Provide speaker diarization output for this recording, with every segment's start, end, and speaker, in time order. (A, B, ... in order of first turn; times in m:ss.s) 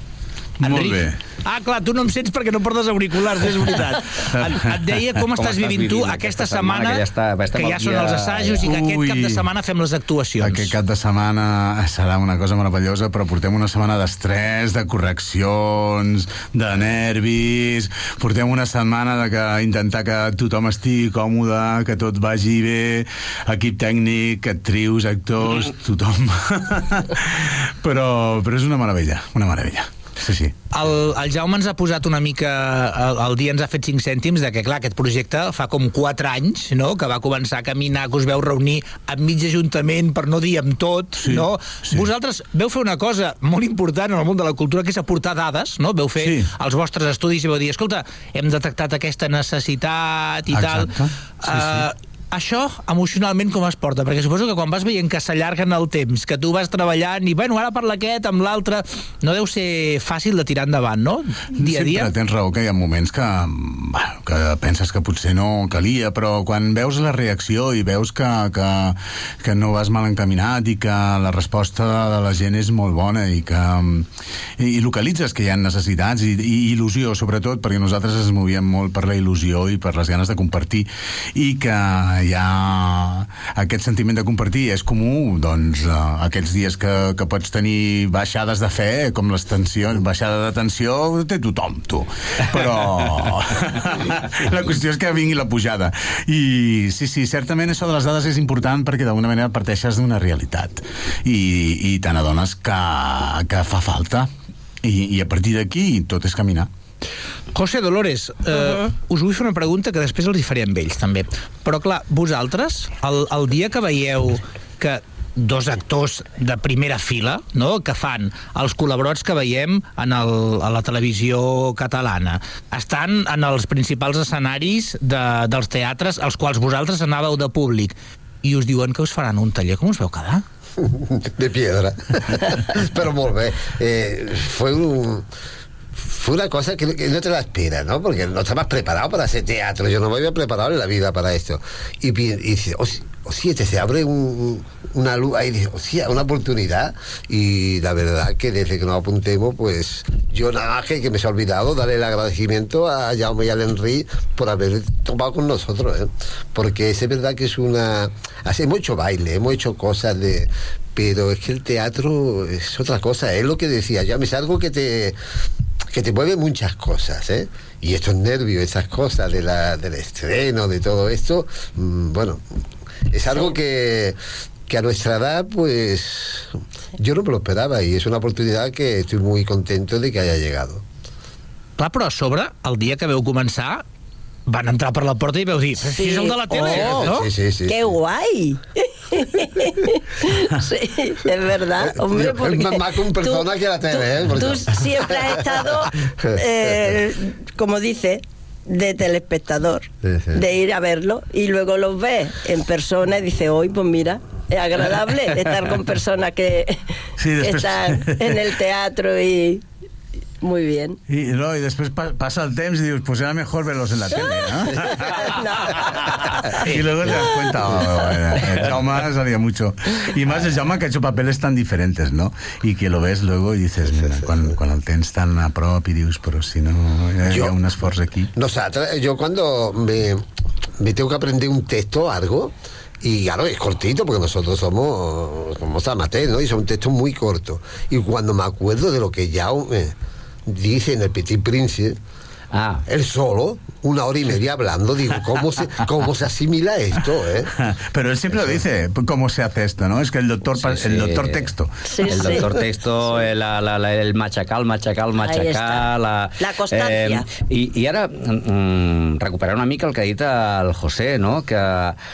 0:00.6-0:10.7 A
0:00.6-0:01.2 B
0:05.4-0:08.8 C
0:08.6-0:09.4 B
0:10.4-0:30.6 B
0:30.7-1:02.1 A
0:41.2-0:42.0 B
0:46.2-0:46.5 B
0:50.5-0:51.8 B
1:01.6-1:14.1 B
1:14.6-1:44.3 B
1:44.8-1:46.7 B
1:47.5-2:10.4 A
2:10.8-2:15.3 D
2:16.0-2:45.2 D
2:45.9-2:52.4 D
2:53.1-3:00.8 D
3:01.8-3:03.8 A
3:04.5-3:07.3 A
3:05.9-3:07.0 E
3:06.6-3:07.9 D
3:07.7-3:26.8 E
3:11.8-3:15.6 D
3:16.2-3:16.9 D
3:20.0-3:20.4 D
3:27.2-3:28.2 B
3:27.4-3:29.6 E
3:30.4-3:31.0 E
3:31.1-3:35.4 B
3:34.2-3:37.5 E
3:36.6-3:48.3 B
3:43.9-3:44.5 D
3:47.3-3:47.6 D
3:48.3-3:50.2 D
3:50.8-3:59.9 D
4:00.5-4:02.0 D
4:02.5-4:02.8 C
4:02.9-4:07.5 D
4:07.7-4:11.7 B
4:08.3-4:08.6 D
4:10.5-4:11.5 C
4:11.9-4:12.5 E
4:12.0-4:22.0 C
4:15.2-4:17.2 E